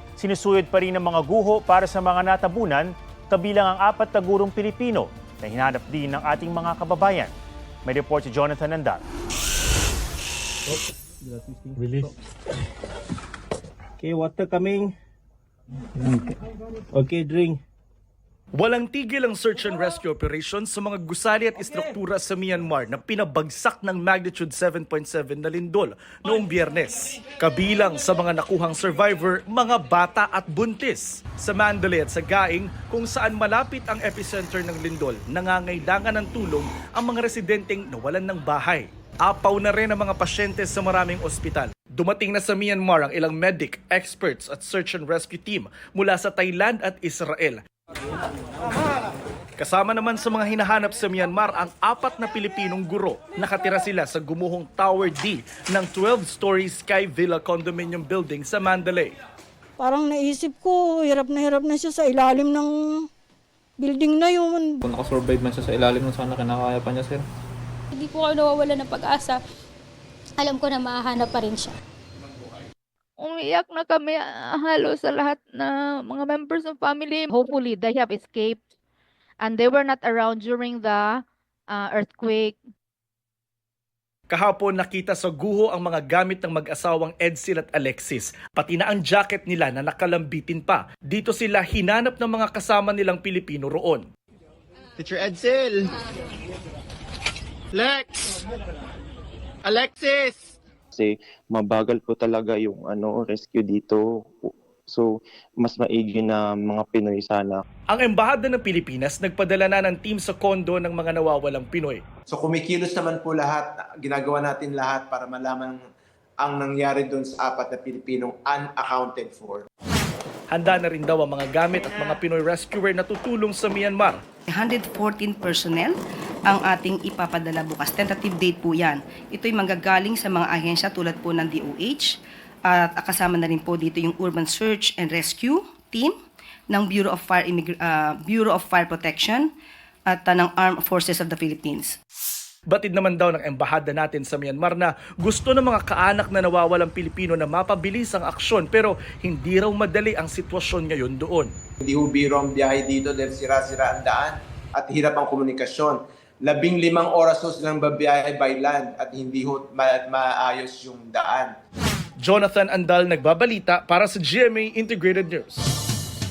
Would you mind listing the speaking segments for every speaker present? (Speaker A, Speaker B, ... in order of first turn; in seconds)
Speaker A: 0.2-7.3, 7.8-9.0
Speaker B: 10.7-12.1, 14.0-14.9, 16.9-17.6
Speaker C: 18.5-47.6, 49.6-59.1, 84.3-94.1, 107.9-112.0, 120.5-124.2, 142.7-151.5, 162.2-165.6
Speaker D: 59.8-63.1, 63.8-64.8
Speaker E: 64.9-67.1
Speaker F: 67.9-69.4, 70.4-71.8
Speaker G: 73.2-78.6, 79.4-82.6
Speaker H: 95.0-95.9, 97.7-98.2, 99.6-100.4
Speaker I: 100.9-105.1, 105.6-107.6
Speaker J: 112.3-115.8, 116.4-119.7, 151.8-161.5
Speaker K: 124.5-136.1, 136.7-139.5, 140.1-142.0